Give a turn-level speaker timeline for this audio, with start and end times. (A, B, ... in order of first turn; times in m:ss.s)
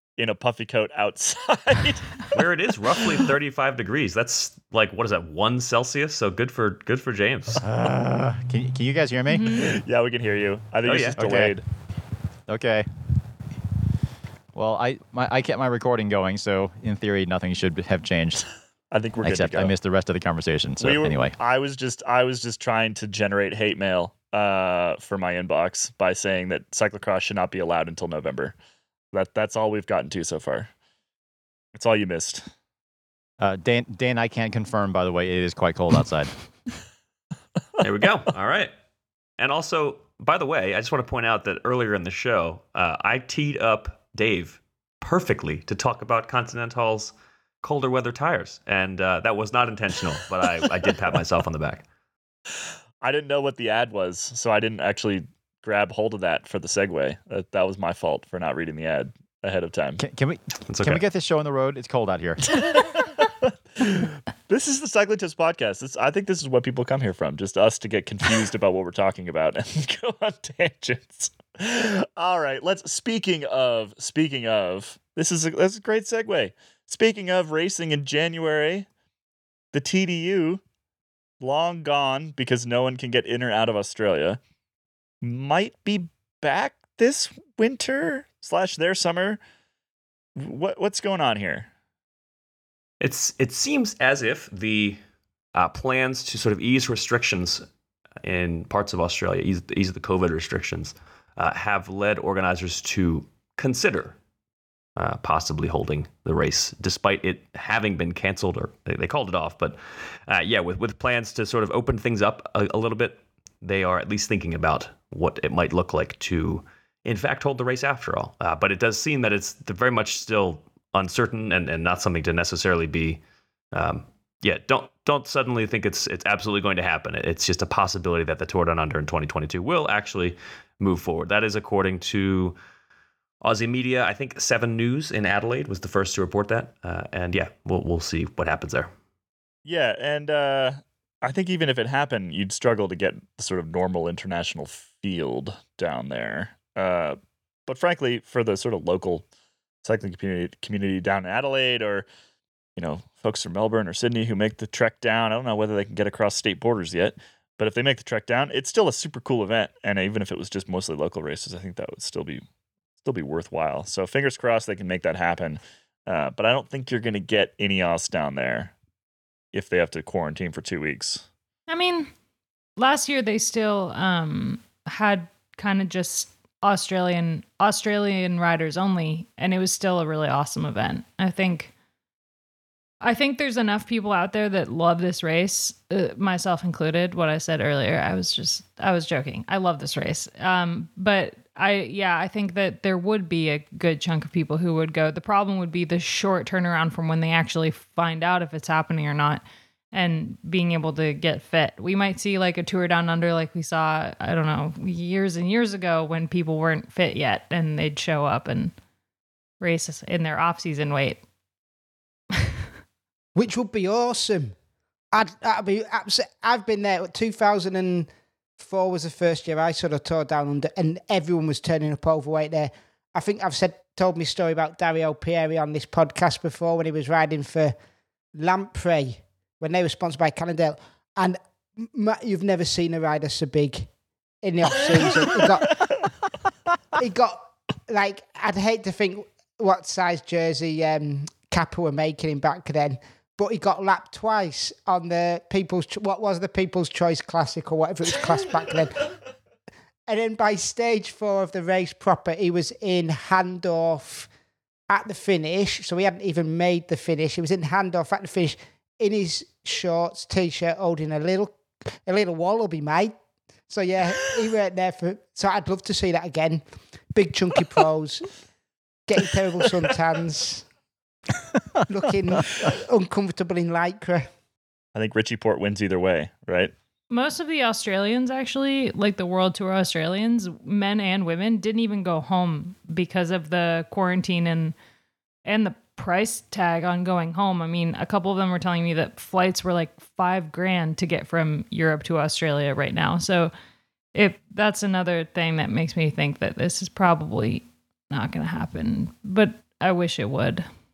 0:00.2-0:02.4 A
0:02.3-0:07.6 B
0:07.6-0:09.7 C
0:09.3-0:09.7 D
0:09.5-0:11.6 A
0:10.8-0:11.2 B
0:11.2-0:11.6 C
0:12.5-0:12.8 C
0:14.5-0:18.4 C
0:18.9-0:19.7 A
0:19.2-0:21.3 C
0:20.8-0:28.5 A
0:29.1-0:30.7 A
0:31.7-0:32.5 A
0:33.4-0:36.3 C
0:37.8-0:38.7 B
0:39.4-0:51.8 B
0:53.0-1:00.0 A
1:00.0-1:02.6 C
1:00.7-1:01.0 B
1:02.5-1:18.9 A
1:19.7-1:20.6 A
1:21.4-1:24.4 A
1:25.2-1:29.4 A
1:30.4-1:31.7 A
1:33.0-1:35.0 B
1:35.5-1:37.6 B
1:38.2-1:44.2 B
1:45.0-2:03.2 B
2:03.7-2:12.6 B
2:13.4-2:18.9 B
2:19.6-2:29.3 A
2:29.8-2:32.0 A
2:32.8-2:42.4 A
2:43.0-2:48.7 A
2:49.5-2:51.3 A
2:51.7-2:52.1 D
2:52.8-3:01.7 D
3:03.0-3:28.7 D
3:29.6-3:31.2 D
3:33.3-3:34.5 E
3:35.1-3:38.1 E
3:38.6-3:47.7 E
3:48.4-3:53.9 E
3:54.4-3:55.9 E
3:55.7-3:56.1 A
3:56.9-4:09.1 E
4:10.1-4:14.3 E
4:14.9-4:23.1 E
4:23.7-4:26.6 E
4:27.1-4:28.3 E
4:29.1-4:30.6 E
4:31.9-4:34.3 E
4:34.9-4:36.7 A
4:37.1-4:44.8 D
4:45.4-4:53.5 D
4:54.1-5:00.6 D